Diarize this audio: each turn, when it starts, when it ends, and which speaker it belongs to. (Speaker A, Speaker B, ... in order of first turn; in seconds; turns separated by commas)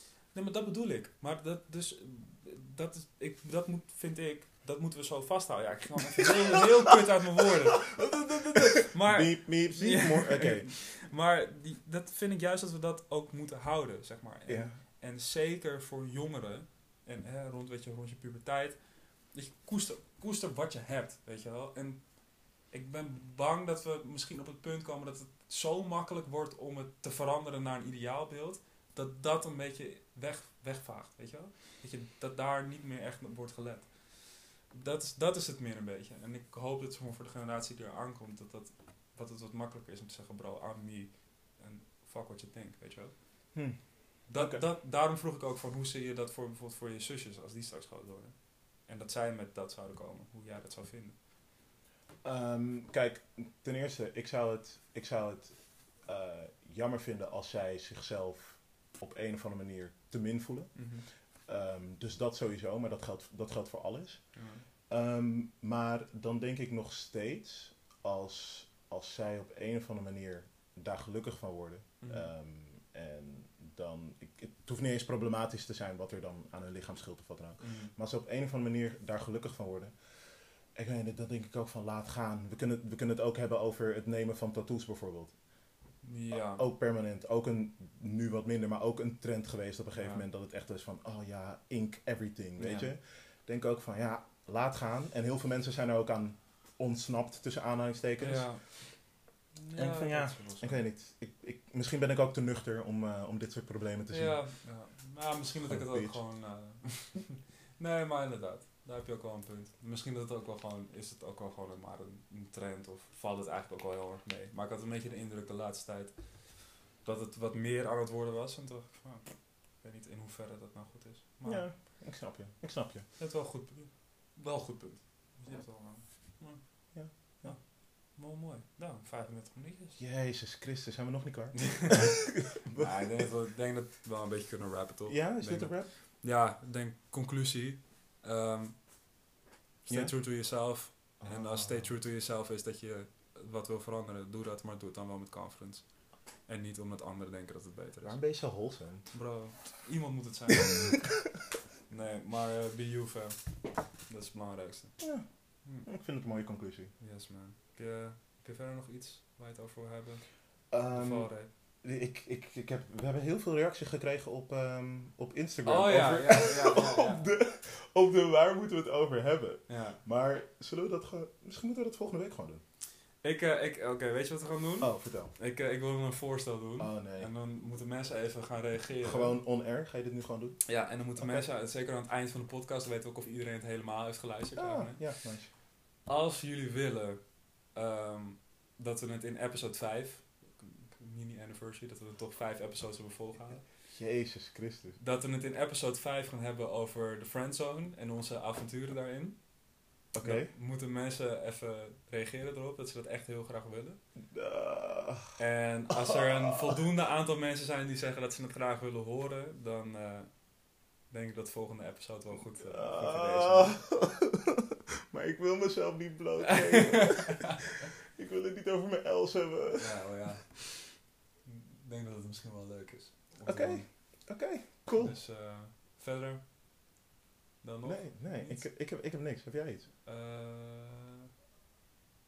Speaker A: 0.3-43.7, Speaker B: 8.0-10.7, Speaker B: 14.4-14.8, Speaker B: 43.5-44.6, Speaker A: 44.3-51.2, Speaker B: 52.2-85.4, Speaker A: 60.7-61.0, Speaker A: 64.3-64.6, Speaker A: 72.0-72.3, Speaker A: 77.6-77.9, Speaker A: 86.0-86.6, Speaker B: 86.3-99.0, Speaker A: 89.9-90.2, Speaker A: 92.6-92.9, Speaker A: 98.2-100.8, Speaker B: 99.7-104.7, Speaker A: 104.1-121.7, Speaker B: 105.6-106.3, Speaker B: 121.4-123.1, Speaker A: 123.2-130.0, Speaker B: 126.9-127.6, Speaker B: 130.0-133.3, Speaker A: 131.6-138.9, Speaker B: 135.1-135.9, Speaker A: 139.8-151.3, Speaker B: 139.9-141.9, Speaker B: 148.0-149.3, Speaker A: 151.9-155.1, Speaker B: 155.0-157.0, Speaker A: 155.6-155.9, Speaker A: 157.0-161.5, Speaker B: 160.7-172.6, Speaker A: 165.6-167.2, Speaker A: 169.7-170.0, Speaker A: 173.2-179.4, Speaker B: 174.8-175.3, Speaker B: 176.8-177.3, Speaker B: 179.0-181.4, Speaker A: 180.7-193.7, Speaker B: 184.6-185.5, Speaker B: 193.9-195.0, Speaker A: 195.0-204.0, Speaker B: 200.1-200.5, Speaker B: 204.3-205.4, Speaker A: 205.4-213.8, Speaker B: 205.9-206.8, Speaker B: 212.6-220.3, Speaker A: 216.5-217.2, Speaker A: 219.8-224.3, Speaker B: 223.4-225.2, Speaker A: 224.9-226.4, Speaker A: 227.6-228.7, Speaker B: 227.8-229.9, Speaker A: 230.0-231.1